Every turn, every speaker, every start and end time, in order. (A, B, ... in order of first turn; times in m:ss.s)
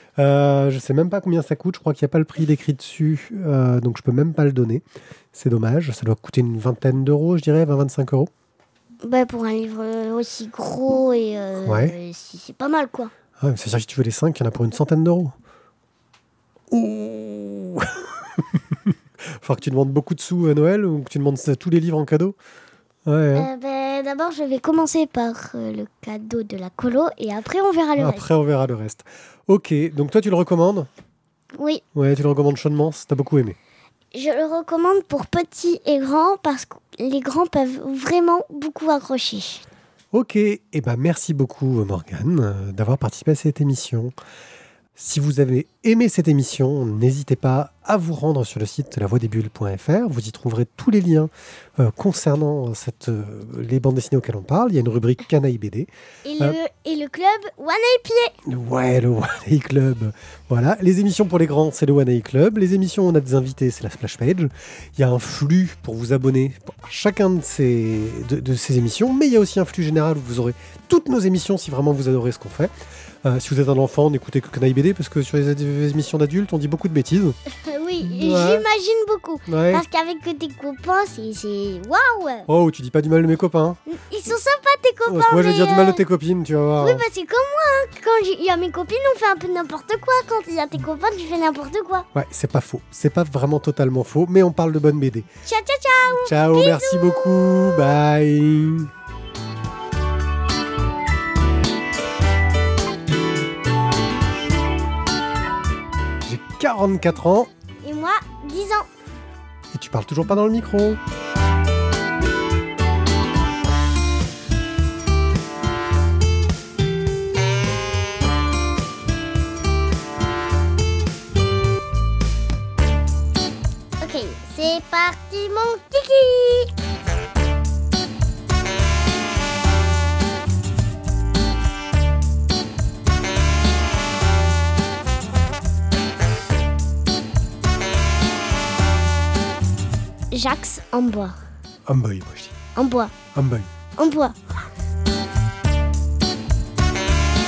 0:00.2-0:08.3 A
0:09.0-0:13.1 B
0:11.6-0:12.0 A
0:13.4-0:15.3 A
0:16.7-0:22.4 A
0:23.1-0:23.5 A
0:23.4-0:28.3 B
0:28.0-0:30.9 A
0:31.6-0:31.8 B
0:31.9-0:33.6 A
0:34.1-0:39.6 B
0:40.1-0:44.1 A
0:45.0-0:56.6 A
0:56.2-0:58.4 B
0:58.5-1:12.7 A
1:13.2-1:17.4 A
1:17.5-1:22.5 B
1:18.1-1:18.7 A
1:19.5-1:19.8 A
1:22.5-1:23.8 A
1:23.9-1:26.0 B
1:25.1-1:27.0 A
1:26.8-1:32.1 B
1:32.1-1:35.3 A
1:35.5-1:37.6 B
1:36.2-1:38.9 A
1:46.3-1:47.5 A
1:47.8-1:48.9 B
1:49.7-1:51.0 A
2:04.0-2:06.8 B
2:20.3-2:21.4 B
2:21.9-2:22.6 A
2:22.8-2:23.1 B
2:23.3-2:23.7 A
2:24.0-2:24.4 B